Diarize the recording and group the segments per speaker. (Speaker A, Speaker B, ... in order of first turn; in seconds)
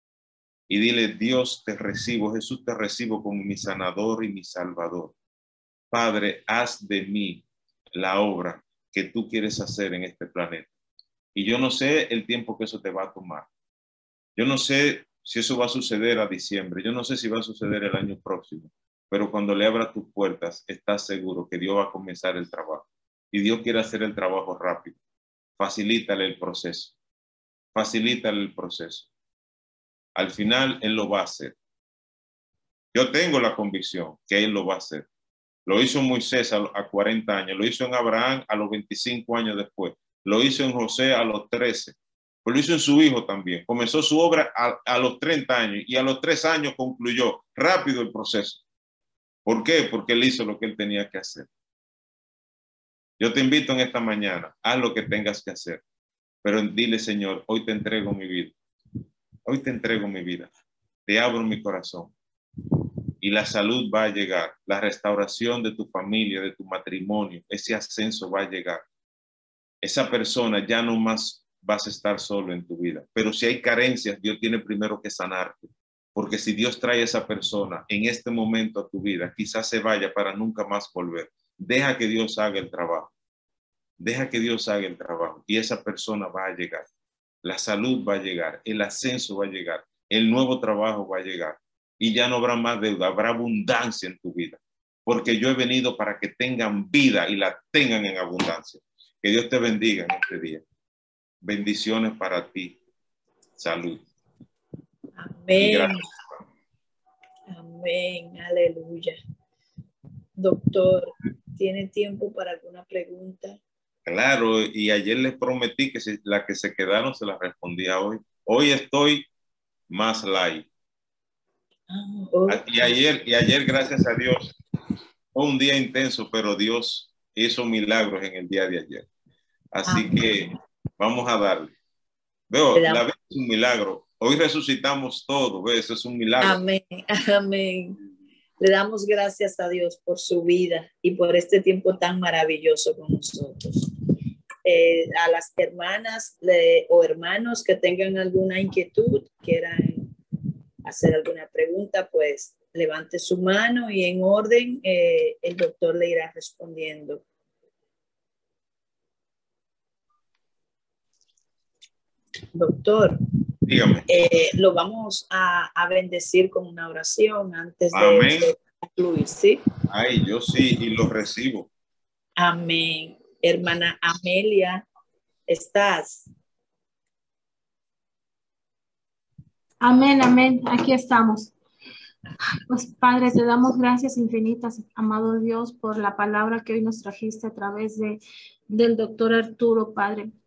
Speaker A: 0.7-5.1, 5.9-10.7, 11.3-13.5, 14.3-25.0, 25.6-26.9, 27.7-29.1, 30.1-31.6, 32.9-35.0, 35.6-48.6, 49.4-51.5, 53.2-55.8, 56.4-58.5, 59.5-60.5, 61.0-62.1, 63.2-68.8, 69.8-83.1, 84.0-86.8, 87.4-100.6, 101.4-102.8, 103.6-104.0, 105.6-106.3, 114.0-119.3, 119.9-120.7, 122.5-124.5, 125.3-129.1, 129.7-131.7, 132.5-136.6, 163.7-164.1, 167.9-168.5, 169.9-171.7
Speaker B: 105.2-106.0, 107.5-109.2, 110.4-113.6, 121.9-123.0, 129.8-130.5, 132.7-133.0, 136.4-138.0, 138.6-143.9, 144.6-150.1, 150.8-157.2, 162.5-163.2, 164.1-169.6, 172.4-174.8, 175.5-176.3
Speaker C: 179.8-181.5, 182.6-190.3